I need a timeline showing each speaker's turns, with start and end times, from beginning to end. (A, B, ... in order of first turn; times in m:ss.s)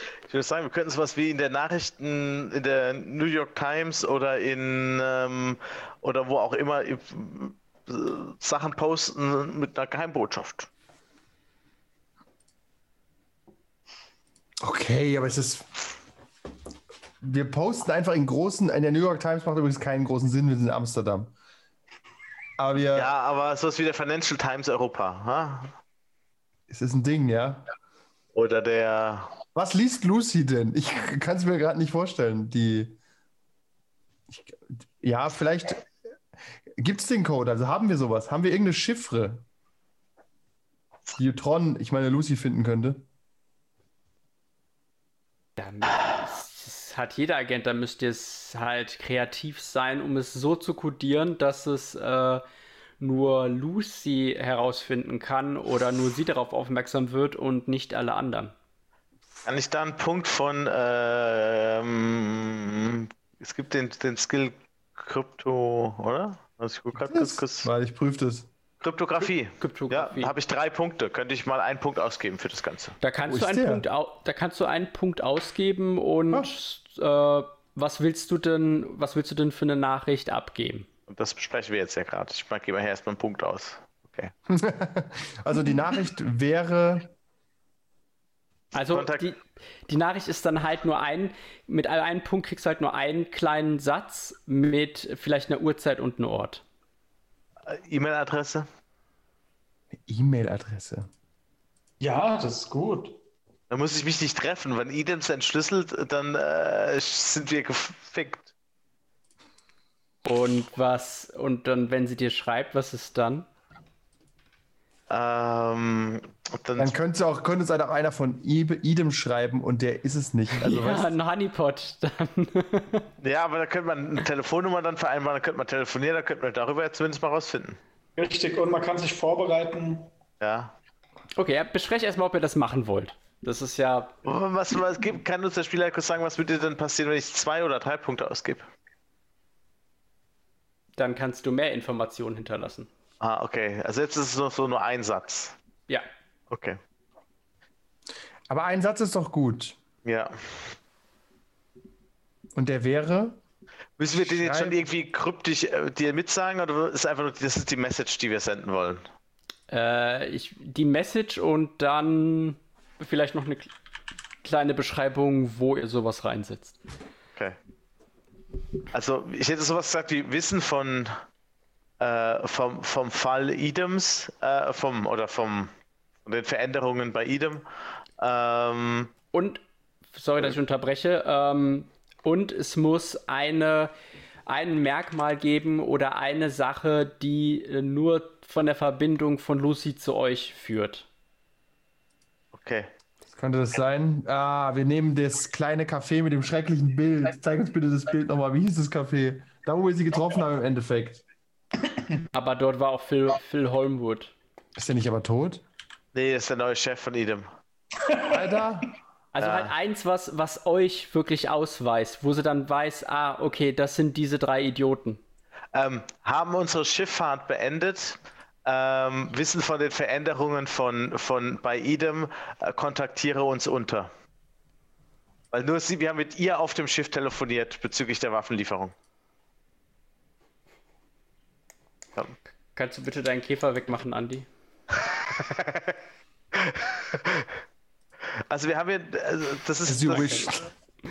0:00.3-0:10.7 A
0:14.6-0:15.8 B
0:17.2-0:21.3 B
0:22.6-0:23.1 B
0:23.0-0:25.8 A
0:26.7-0:27.7 B
0:28.3-0:29.3 A
0:29.6-0:33.0 B
0:34.3-0:35.9 B
0:36.8-0:39.4 B
0:41.2-0:43.0 B
0:45.6-0:52.4 C
0:53.0-0:58.5 C
0:59.4-1:07.7 A
1:06.9-1:08.5 B
1:08.8-1:13.0 A
1:09.6-1:10.3 C
1:13.0-1:20.9 C
1:13.3-1:13.8 B
1:21.1-1:24.3 A
1:24.5-1:27.1 B
1:28.7-1:36.6 C
1:28.9-1:29.2 A
1:37.7-1:38.7 A
1:40.0-1:41.1 B
1:42.0-1:43.2 D
1:43.7-1:48.5 A
1:50.2-1:53.5 C
1:55.1-1:56.9 A
1:56.8-2:01.1 B
2:00.6-2:03.1 C
2:03.2-2:07.8 A
2:08.2-2:10.1 D
2:10.4-2:10.7 A
2:11.4-2:14.1 C
2:14.2-2:18.6 A
2:21.0-2:22.9 C
2:23.2-2:25.6 A
2:26.5-2:26.8 A
2:28.5-2:29.8 B
2:30.0-2:30.7 A
2:32.6-2:33.4 B
2:34.0-2:39.0 A
2:34.1-2:34.8 B
2:39.7-2:43.7 C
2:44.4-2:46.8 C
2:48.9-2:51.2 A
2:52.0-2:55.7 A
2:56.3-2:57.6 A
2:58.2-2:59.1 A
2:59.3-2:59.6 C
3:00.1-3:03.9 C
3:04.5-3:11.1 C
3:12.5-3:12.9 A
3:13.3-3:21.2 B
3:22.3-3:24.3 C
3:24.8-3:25.6 B
3:26.1-3:27.5 A
3:28.1-3:28.4 D
3:28.2-3:28.9 B
3:29.3-3:35.2 C
3:29.4-3:29.7 A
3:35.7-3:44.1 A
3:45.5-3:48.9 A
3:52.8-3:54.5 C
3:55.3-3:56.0 A
3:56.5-3:57.5 A
3:58.4-4:00.6 A
3:59.9-4:00.7 B